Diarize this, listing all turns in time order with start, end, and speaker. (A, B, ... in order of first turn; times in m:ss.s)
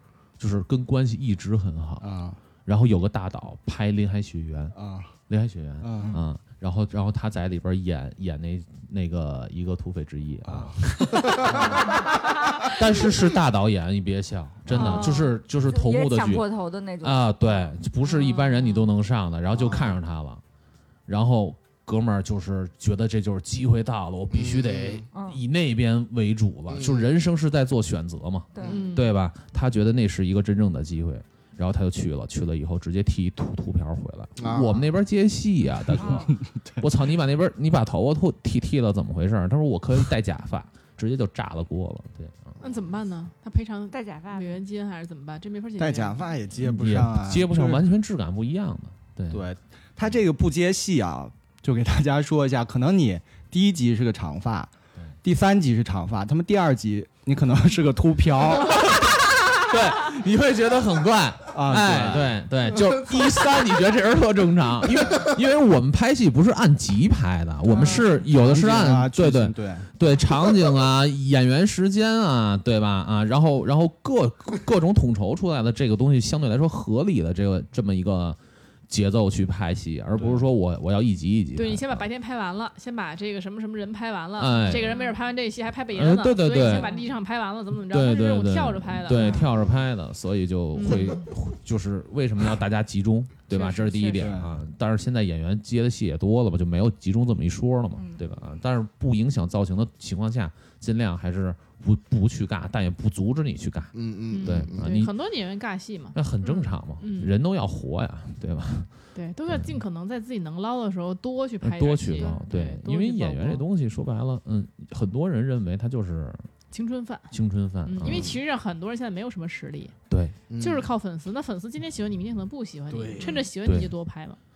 0:00.4-0:02.0 A
0:02.0-0:02.4 B
0:02.6-0:04.8 A
0:04.7-0:05.1 B
0:05.3-0:11.8 A
0:05.8-0:06.2 B
0:10.4-0:11.9 B
0:11.9-0:12.7 C
0:12.7-0:16.5 A
0:14.7-0:17.7 C
0:14.7-0:15.0 B
0:14.8-0:15.2 D
0:17.0-0:20.4 A
0:18.0-0:18.5 D
0:19.5-0:19.9 E
0:21.1-0:42.6 A
0:24.3-0:25.0 E
0:25.1-0:25.4 C
0:26.7-0:27.1 E
0:28.5-0:28.9 C
0:28.6-0:29.1 D
0:34.4-0:34.9 E
0:36.0-0:36.8 B
0:36.0-0:36.3 C
0:42.6-0:46.2 D
0:43.9-0:44.6 C
0:45.8-0:47.8 B
0:46.6-0:49.4 A
0:49.3-0:54.7 B
0:55.2-0:59.0 B
0:58.7-1:22.1 A
1:01.5-1:02.4 B
1:07.7-1:08.0 C
1:08.2-1:09.9 B
1:20.2-1:20.4 B
1:21.5-1:29.4 D
1:24.4-1:25.0 A
1:24.7-1:25.2 C
1:25.9-1:26.9 A
1:26.6-1:27.1 C
1:27.8-1:45.1 A
1:29.1-1:29.5 C
1:30.8-1:31.2 D
1:33.5-1:34.3 D
1:34.2-1:34.5 B
1:38.0-1:38.2 C
1:43.9-1:44.9 E
1:44.3-1:46.2 D
1:46.1-1:48.9 A
1:46.4-1:46.7 C
1:47.0-1:47.3 D
1:49.1-1:53.6 D
1:49.5-1:49.7 A
1:51.6-1:56.5 A
1:52.2-1:52.4 C
1:56.7-1:57.3 D
1:57.3-1:58.3 A
1:57.8-1:59.9 D
1:58.0-1:58.4 E
2:00.1-2:00.4 A
2:00.5-2:00.9 E
2:00.6-2:04.4 D
2:03.0-2:03.3 E
2:03.6-2:03.9 A